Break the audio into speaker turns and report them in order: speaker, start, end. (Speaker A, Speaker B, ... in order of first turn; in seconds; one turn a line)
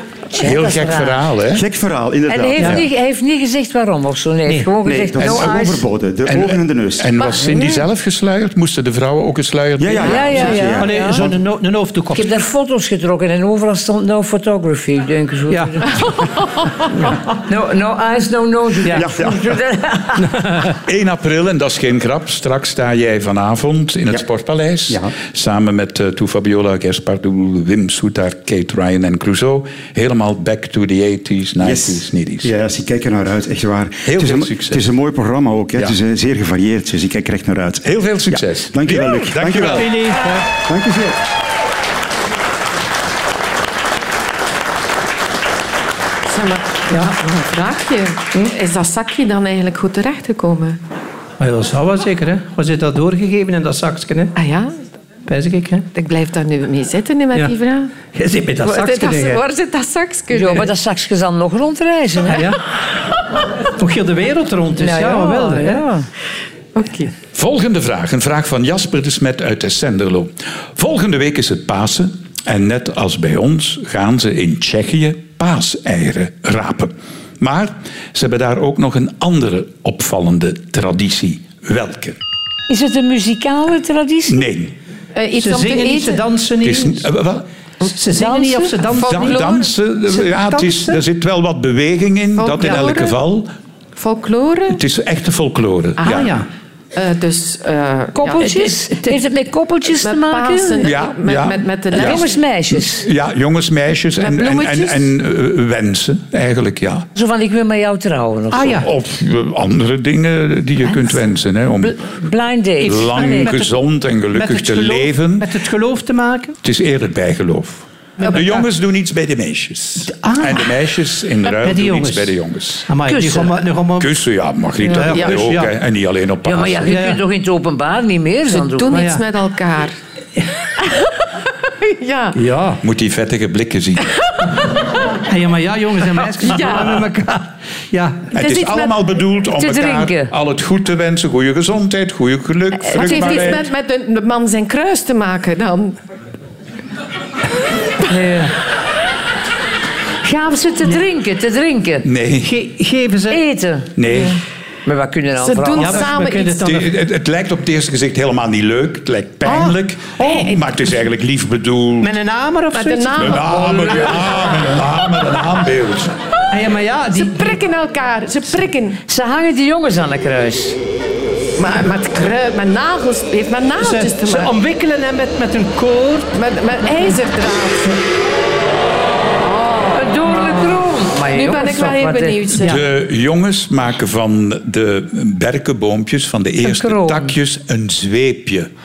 Speaker A: 0.3-1.2
Speaker B: 0.4-1.7
Speaker C: 1.5-2.8
Speaker A: 2.3-5.8
Speaker D: 2.6-2.8
Speaker D: 4.5-4.7
Speaker C: 4.8-7.1
Speaker B: 5.2-10.5
Speaker E: 7.2-7.8
Speaker C: 9.8-11.4
Speaker A: 10.0-11.3
Speaker D: 10.3-12.2
Speaker A: 12.1-16.1
Speaker D: 15.5-15.8
Speaker E: 16.0-16.9
Speaker A: 17.3-20.7
Speaker C: 19.0-19.5
Speaker D: 20.2-20.7
Speaker B: 20.9-32.5
Speaker C: 31.6-40.0
Speaker B: 34.0-34.9
Speaker B: 37.8-40.2
Speaker D: 39.7-40.5
Speaker C: 40.6-41.2
Speaker E: 46.2-50.8
Speaker D: 51.4-54.3
Speaker E: 54.4-54.8
Speaker D: 55.3-55.9
Speaker E: 55.9-58.0
Speaker D: 58.0-59.4
Speaker E: 58.6-60.7
Speaker A: 60.3-62.5
Speaker D: 62.3-62.7
Speaker D: 63.8-65.8
Speaker A: 64.8-66.1
Speaker E: 66.8-67.1
Speaker B: 67.3-82.2
Speaker A: 82.7-84.4
Speaker B: 84.3-84.7
Speaker E: 85.2-86.2
Speaker D: 85.4-87.1
Speaker B: 86.6-87.5
Speaker D: 87.9-89.5
Speaker A: 88.2-88.8
Speaker E: 88.9-89.7
Speaker B: 89.0-93.5
Speaker D: 90.1-91.0
Speaker E: 92.4-93.2
Speaker E: 94.0-94.8
Speaker B: 94.7-96.3
Speaker E: 96.0-96.3
Speaker D: 96.1-96.5
Speaker E: 96.9-98.7
Speaker A: 98.2-100.9
Speaker E: 100.0-102.4
Speaker B: 100.8-107.1
Speaker A: 101.9-103.1
Speaker E: 104.2-105.1
Speaker A: 107.2-108.9
Speaker D: 108.5-108.9
Speaker B: 108.8-112.1
Speaker A: 111.8-113.5
Speaker D: 112.8-113.7
Speaker B: 112.9-115.5
Speaker D: 114.3-116.5
Speaker B: 116.6-122.9
Speaker D: 118.2-118.6
Speaker D: 120.0-120.7
Speaker D: 121.5-122.4
Speaker D: 122.9-124.2
Speaker A: 123.1-123.6
Speaker B: 124.0-127.0
Speaker D: 124.9-125.7
Speaker E: 125.0-125.3
Speaker A: 126.5-129.0
Speaker D: 126.9-127.2
Speaker E: 128.5-130.0
Speaker D: 128.9-129.2
Speaker E: 130.8-132.4
Speaker D: 132.3-132.8
Speaker B: 132.8-134.1
Speaker E: 134.1-134.9
Speaker D: 135.1-138.3
Speaker E: 136.4-137.1
Speaker B: 138.3-143.7
Speaker E: 138.3-139.1
Speaker A: 139.6-140.3
Speaker E: 142.9-146.0
Speaker A: 143.0-143.3
Speaker A: 148.1-148.5
Speaker A: 150.2-152.1
Speaker B: 152.1-152.5
Speaker D: 152.4-153.4
Speaker A: 153.3-154.2
Speaker B: 154.0-154.4
Speaker A: 154.9-156.1
Speaker E: 155.4-156.7
Speaker D: 155.8-156.9
Speaker B: 156.6-162.1
Speaker D: 159.4-160.6
Speaker D: 162.0-163.7
Speaker E: 162.7-164.4
Speaker B: 163.2-166.2
Speaker D: 166.5-167.6
Speaker E: 167.1-169.0
Speaker A: 169.1-170.8
Speaker E: 171.6-174.5
Speaker D: 173.8-176.3
Speaker E: 176.3-178.0
Speaker E: 179.4-182.8
Speaker A: 179.9-182.7
Speaker B: 182.6-188.7
Speaker A: 186.6-187.4